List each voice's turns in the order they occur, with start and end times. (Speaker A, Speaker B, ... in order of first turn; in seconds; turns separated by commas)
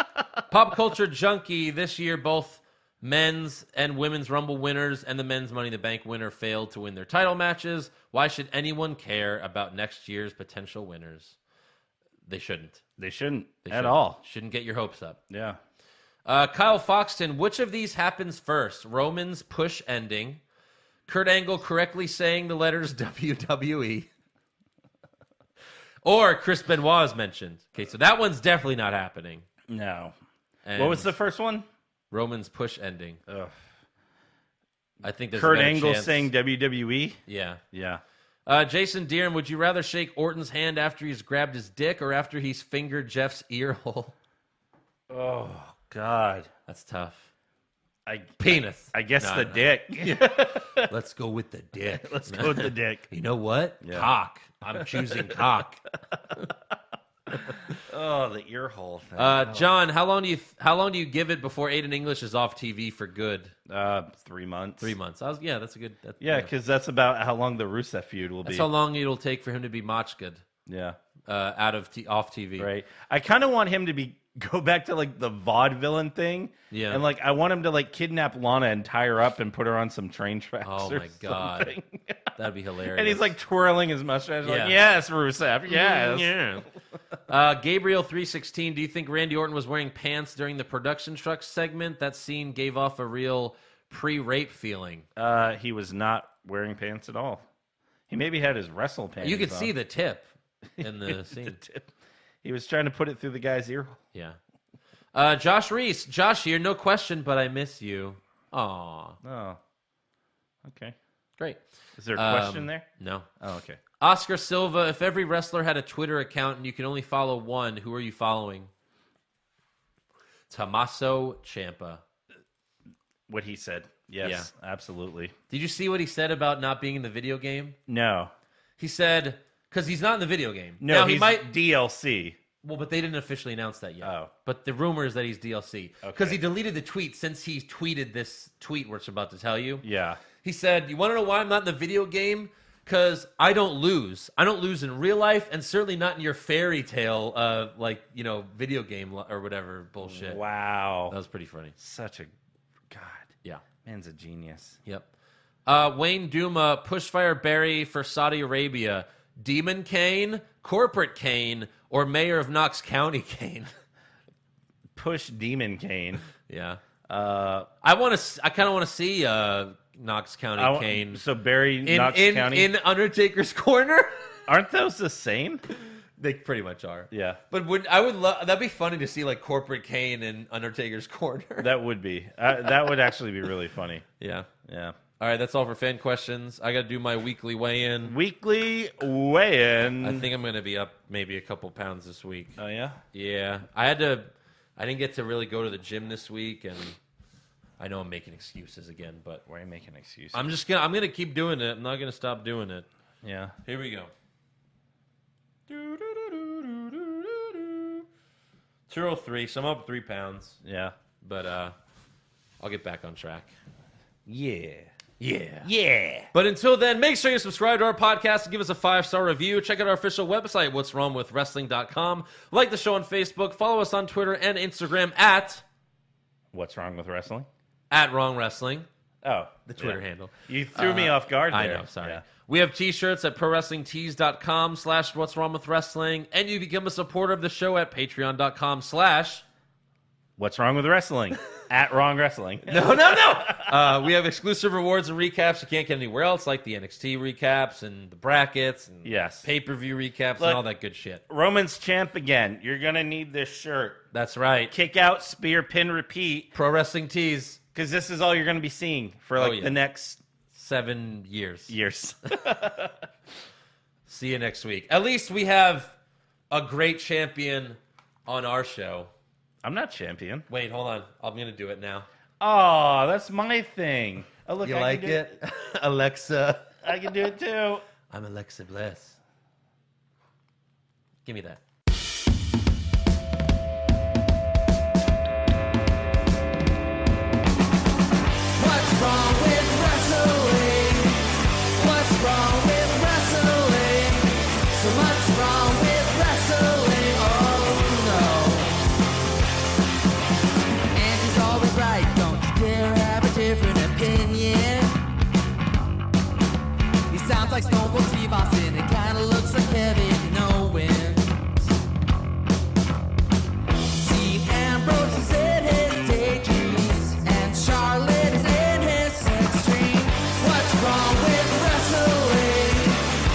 Speaker A: 0.5-11.4, Speaker A: 12.3-12.8, Speaker B: 13.0-14.2, Speaker A: 13.7-15.2, Speaker B: 15.3-15.6, Speaker A: 16.3-20.4, Speaker A: 21.1-24.1, Speaker A: 26.0-29.5, Speaker B: 29.7-30.2, Speaker A: 30.6-31.1, Speaker B: 30.8-31.7, Speaker A: 32.1-33.2, Speaker B: 33.3-33.6, Speaker A: 35.0-36.3, Speaker B: 35.3-37.2, Speaker A: 37.3-37.6, Speaker B: 37.7-38.0, Speaker A: 38.5-44.1, Speaker B: 45.1-46.5, Speaker A: 46.7-47.3, Speaker B: 48.1-50.9, Speaker A: 48.4-55.8, Speaker B: 51.9-53.1, Speaker B: 53.8-54.1, Speaker B: 54.8-55.4, Speaker B: 57.3-59.8, Speaker A: 59.2-63.5, Speaker B: 63.7-64.9, Speaker A: 64.8-66.5, Speaker B: 66.2-68.7, Speaker A: 68.4-70.4, Speaker B: 70.7-71.0, Speaker A: 71.3-72.7, Speaker B: 72.6-82.4, Speaker A: 76.7-77.0, Speaker A: 80.6-81.8, Speaker A: 82.4-83.3, Speaker B: 82.9-86.4, Speaker A: 84.4-84.8, Speaker A: 85.7-86.7, Speaker A: 87.3-95.1, Speaker B: 95.2-97.5, Speaker B: 98.1-99.7, Speaker A: 99.2-101.6, Speaker B: 100.8-101.9, Speaker B: 102.4-104.0, Speaker A: 105.1-109.2, Speaker B: 109.2-109.6, Speaker B: 110.6-111.0, Speaker B: 112.0-112.9, Speaker A: 112.1-113.3, Speaker B: 113.4-113.8, Speaker A: 114.0-118.7, Speaker A: 120.5-122.0, Speaker B: 123.3-125.3, Speaker A: 124.2-124.5, Speaker A: 125.5-127.8, Speaker B: 127.9-128.3, Speaker A: 128.8-131.5, Speaker B: 130.8-132.4, Speaker A: 132.6-139.8, Speaker B: 134.0-134.3, Speaker B: 136.0-136.4, Speaker B: 139.8-140.2, Speaker A: 140.4-150.4, Speaker B: 150.0-151.2, Speaker A: 151.1-151.8, Speaker B: 151.8-152.3, Speaker B: 152.9-154.8, Speaker A: 155.7-163.7, Speaker B: 164.9-166.2, Speaker A: 166.5-166.8, Speaker B: 167.1-167.7, Speaker A: 167.8-171.2, Speaker B: 170.6-172.7, Speaker A: 171.8-174.4, Speaker B: 174.5-175.6, Speaker A: 176.2-181.7, Speaker B: 177.1-177.4, Speaker B: 181.6-184.1, Speaker A: 184.2-184.5, Speaker B: 184.6-185.0, Speaker A: 185.2-188.2, Speaker B: 188.0-190.3, Speaker A: 190.0-192.6, Speaker B: 192.6-193.0, Speaker A: 193.1-197.0, Speaker A: 197.8-199.4, Speaker B: 199.5-200.4, Speaker A: 200.3-202.9, Speaker B: 203.2-203.6, Speaker A: 203.7-204.1, Speaker A: 205.7-208.1, Speaker A: 208.9-210.6, Speaker B: 210.6-210.9, Speaker A: 211.2-211.8, Speaker A: 212.6-213.5, Speaker B: 214.3-214.9, Speaker A: 215.2-215.7, Speaker B: 215.6-216.3, Speaker A: 216.3-225.6, Speaker B: 226.5-227.5, Speaker A: 227.9-228.9, Speaker B: 229.2-232.2, Speaker A: 229.7-239.4, Speaker B: 240.4-243.9, Speaker A: 242.7-251.2, Speaker B: 249.1-249.5, Speaker B: 250.4-250.6, Speaker B: 251.3-254.1, Speaker A: 254.1-254.7, Speaker B: 254.7-256.5, Speaker A: 256.5-257.6, Speaker B: 257.8-260.2, Speaker A: 259.4-259.8, Speaker A: 260.5-261.7, Speaker B: 261.7-263.0, Speaker A: 264.1-265.9, Speaker A: 266.5-269.1, Speaker B: 269.6-270.5, Speaker A: 270.5-272.1, Speaker B: 272.4-275.3, Speaker A: 274.6-276.8, Speaker B: 276.8-277.9, Speaker A: 278.1-279.2, Speaker A: 281.2-281.6, Speaker C: 288.6-298.8, Speaker C: 300.9-305.0, Speaker C: 307.1-311.5, Speaker C: 314.0-323.0